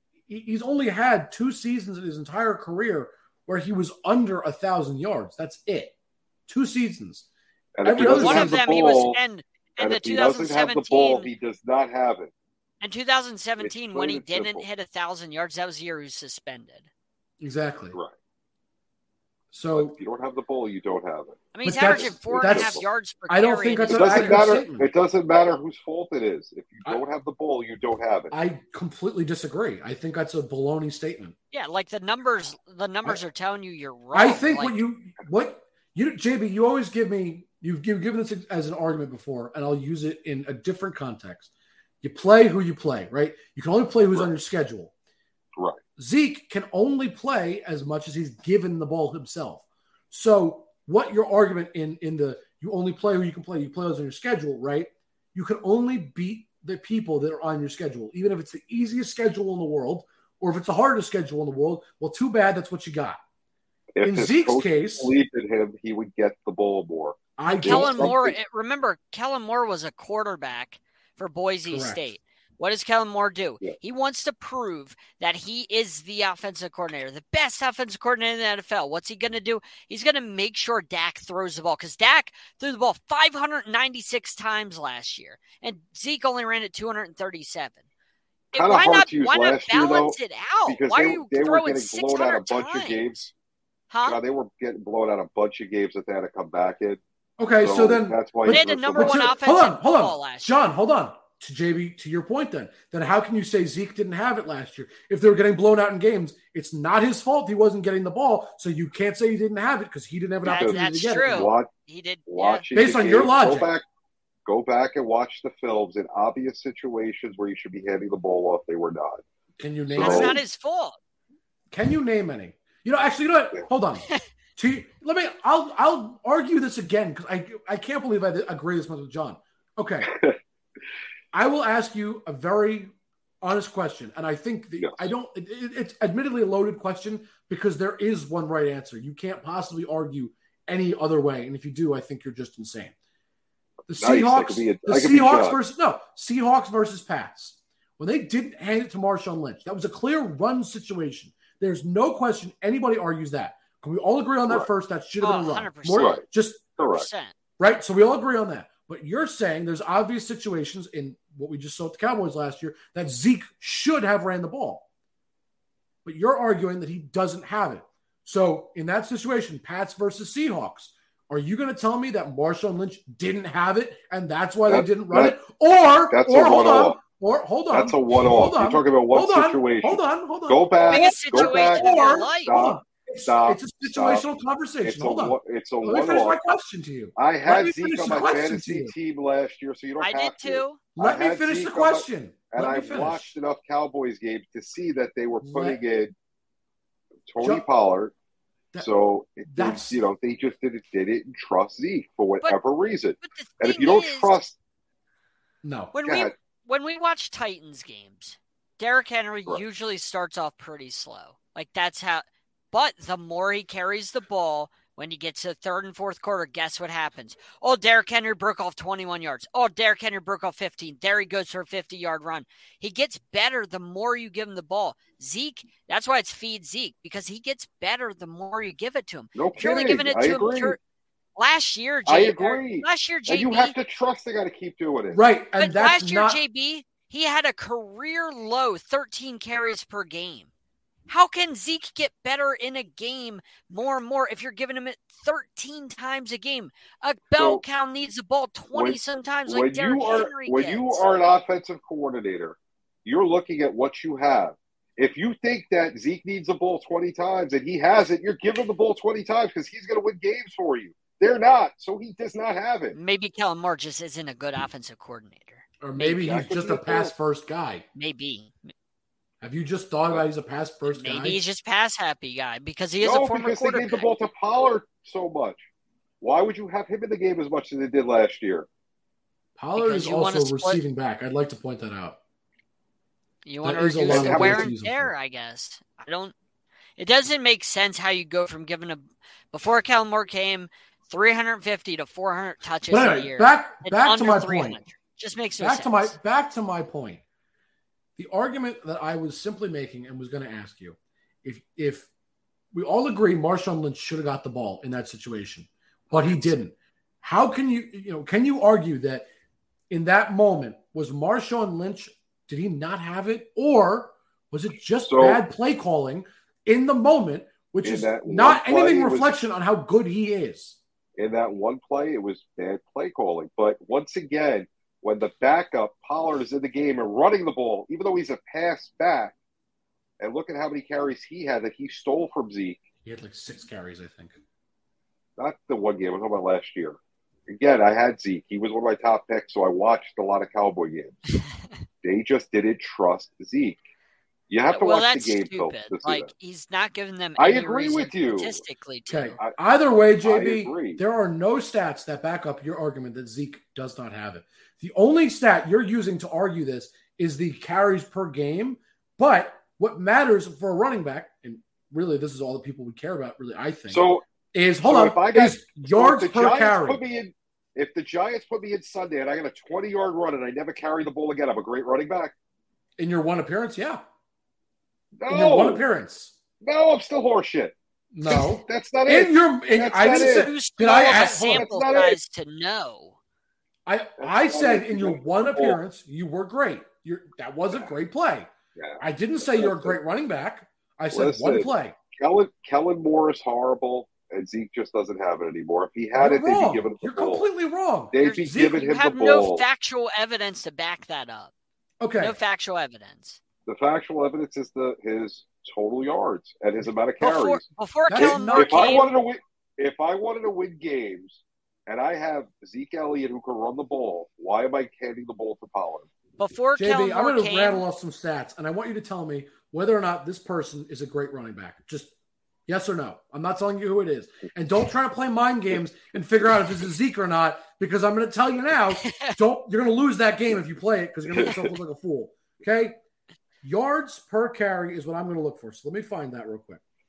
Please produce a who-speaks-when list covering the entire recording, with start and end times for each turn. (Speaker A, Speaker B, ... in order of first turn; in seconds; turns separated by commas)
Speaker A: 0.3-5.9, Speaker A: 6.5-7.3, Speaker B: 7.8-9.2, Speaker A: 7.8-8.6, Speaker C: 8.0-11.3, Speaker B: 9.8-12.3, Speaker C: 12.8-16.9, Speaker B: 13.6-14.7, Speaker A: 17.4-18.0, Speaker A: 19.5-20.0, Speaker B: 19.7-22.8, Speaker C: 21.5-24.5, Speaker A: 21.6-24.9, Speaker B: 23.9-28.3, Speaker A: 28.3-31.3, Speaker C: 31.5-34.8, Speaker A: 34.1-41.5, Speaker A: 42.0-44.9, Speaker A: 46.0-63.2, Speaker B: 64.0-68.3, Speaker A: 64.0-65.1, Speaker A: 67.4-68.2, Speaker C: 67.6-87.8, Speaker A: 71.7-72.0, Speaker C: 88.5-93.0, Speaker B: 88.5-93.3, Speaker C: 93.9-94.2, Speaker B: 94.0-97.0, Speaker A: 97.4-111.5, Speaker B: 97.6-99.3, Speaker C: 98.5-100.5, Speaker B: 110.4-111.7, Speaker C: 110.4-112.7, Speaker B: 112.3-113.8, Speaker A: 112.8-113.7, Speaker B: 114.5-119.2, Speaker A: 119.6-120.4, Speaker B: 119.9-120.4, Speaker C: 119.9-121.0, Speaker A: 121.7-130.1, Speaker B: 130.1-130.4, Speaker A: 131.3-142.9, Speaker B: 134.8-135.1, Speaker A: 143.9-156.7, Speaker B: 143.9-145.6, Speaker C: 155.2-156.2, Speaker B: 155.9-156.2, Speaker B: 156.8-157.1, Speaker C: 156.9-157.3, Speaker A: 157.6-164.8, Speaker A: 166.0-188.9, Speaker B: 174.7-175.4, Speaker B: 176.1-177.0, Speaker B: 177.7-184.2, Speaker C: 180.9-182.6, Speaker B: 184.8-186.4, Speaker B: 187.2-196.1, Speaker C: 190.0-190.8, Speaker A: 190.9-193.3, Speaker A: 195.4-195.8, Speaker B: 197.3-198.1, Speaker B: 198.8-204.6, Speaker A: 199.5-200.0, Speaker C: 203.2-204.4, Speaker A: 205.6-205.9, Speaker C: 205.9-230.8, Speaker B: 206.0-206.3, Speaker B: 229.3-230.8, Speaker C: 231.4-233.7, Speaker B: 232.1-235.2, Speaker A: 235.1-236.4, Speaker C: 235.6-240.5, Speaker C: 241.1-251.0, Speaker B: 247.4-247.6, Speaker B: 248.7-262.9, Speaker C: 262.9-265.6, Speaker A: 265.8-267.8, Speaker B: 265.9-267.1, Speaker C: 267.9-268.7, Speaker A: 269.4-271.4, Speaker C: 270.9-274.1, Speaker B: 273.0-275.6, Speaker B: 276.2-278.7, Speaker A: 279.6-282.2, Speaker C: 279.8-280.8, Speaker C: 283.4-286.3, Speaker A: 283.6-285.1, Speaker B: 284.1-284.7, Speaker C: 287.0-296.1, Speaker A: 292.9-294.8, Speaker A: 295.6-297.2, Speaker A: 298.2-302.1, Speaker A: 302.7-309.3, Speaker A: 309.9-320.8, Speaker B: 315.0-315.4, Speaker B: 317.8-319.4, Speaker B: 321.2-329.3, Speaker B: 330.2-332.8, Speaker A: 333.1-334.4, Speaker B: 335.4-341.2, Speaker B: 342.0-343.8, Speaker B: 344.5-346.3, Speaker C: 344.7-349.4, Speaker B: 347.4-348.6, Speaker A: 349.1-367.0, Speaker B: 350.2-351.0, Speaker B: 363.9-364.2, Speaker B: 364.8-372.3, Speaker A: 373.0-374.0, Speaker B: 375.2-375.8, Speaker A: 375.3-376.3, Speaker B: 376.6-377.7, Speaker A: 378.1-381.7, Speaker B: 378.3-380.5, Speaker C: 380.2-383.1, Speaker B: 381.5-382.2, Speaker A: 383.9-391.9, Speaker B: 384.2-385.8, Speaker B: 388.8-390.0, Speaker B: 391.1-397.5, Speaker A: 396.1-398.8, Speaker B: 398.1-399.6, Speaker C: 398.2-401.5, Speaker A: 402.0-402.4, Speaker C: 402.2-403.4, Speaker B: 403.7-407.6, Speaker C: 407.2-409.1, Speaker A: 408.1-409.1, Speaker B: 408.2-416.1, Speaker C: 416.4-417.8, Speaker A: 416.8-422.1, Speaker A: 422.7-433.0, Speaker C: 429.0-429.3, Speaker B: 431.3-431.7, Speaker A: 433.6-436.8